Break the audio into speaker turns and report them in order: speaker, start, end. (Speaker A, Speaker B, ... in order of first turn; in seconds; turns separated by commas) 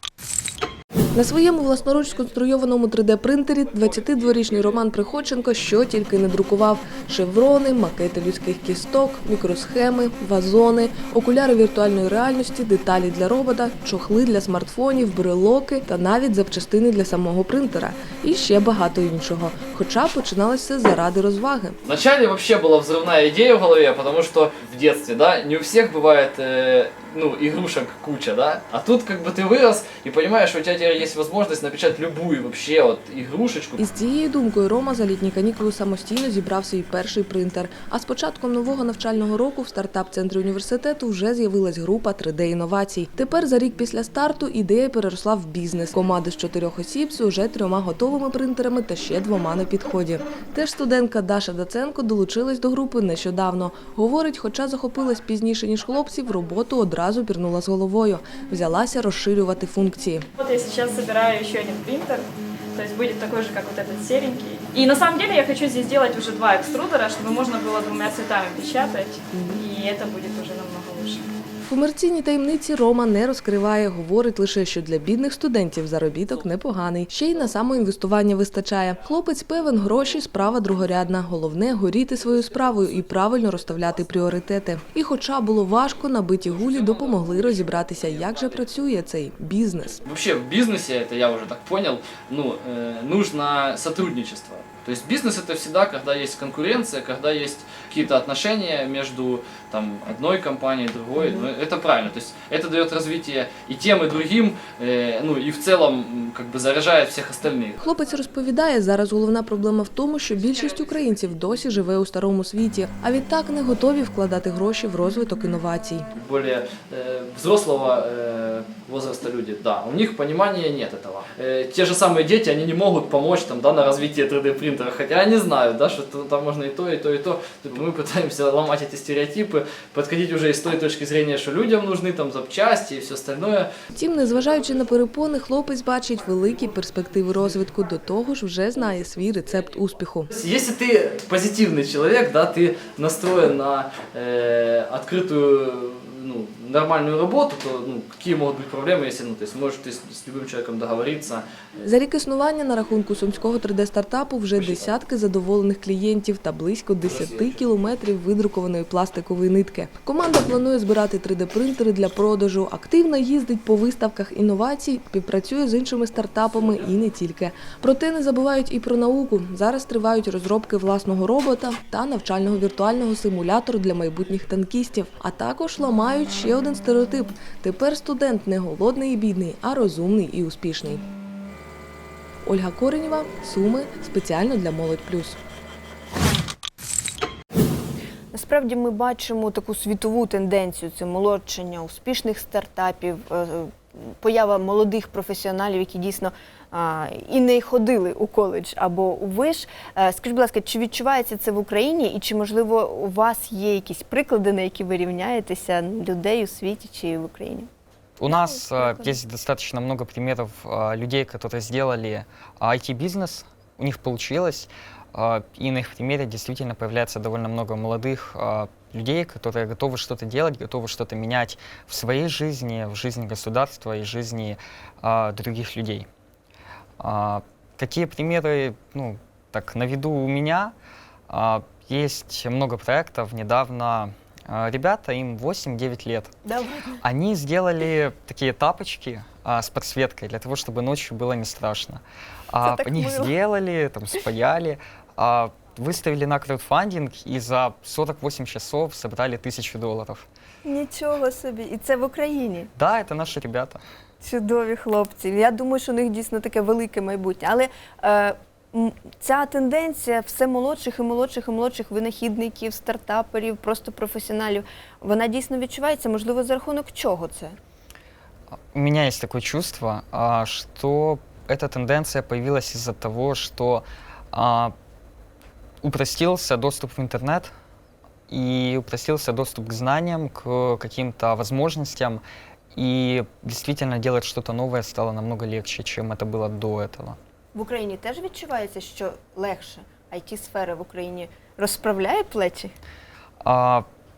Speaker A: 1.1-21.8, Speaker B: 21.8-33.8, Speaker A: 33.8-60.3, Speaker C: 60.4-71.2, Speaker A: 69.3-69.6, Speaker A: 71.6-90.0, Speaker B: 90.0-107.8, Speaker A: 107.8-116.1, Speaker B: 116.1-133.7, Speaker A: 133.9-140.3, Speaker B: 140.3-151.4, Speaker A: 151.8-181.0, Speaker B: 154.6-154.9, Speaker B: 157.0-157.6, Speaker A: 182.4-185.4, Speaker D: 188.3-207.7, Speaker E: 208.2-226.1, Speaker E: 227.0-230.7, Speaker E: 231.3-236.3, Speaker D: 236.4-237.0, Speaker E: 237.0-250.2, Speaker D: 242.6-243.3, Speaker D: 250.6-252.7, Speaker E: 252.8-253.8, Speaker D: 254.2-267.6, Speaker E: 268.7-274.7, Speaker E: 275.8-277.5, Speaker E: 278.3-282.2, Speaker E: 282.7-287.2, Speaker D: 287.5-292.7, Speaker E: 293.4-293.8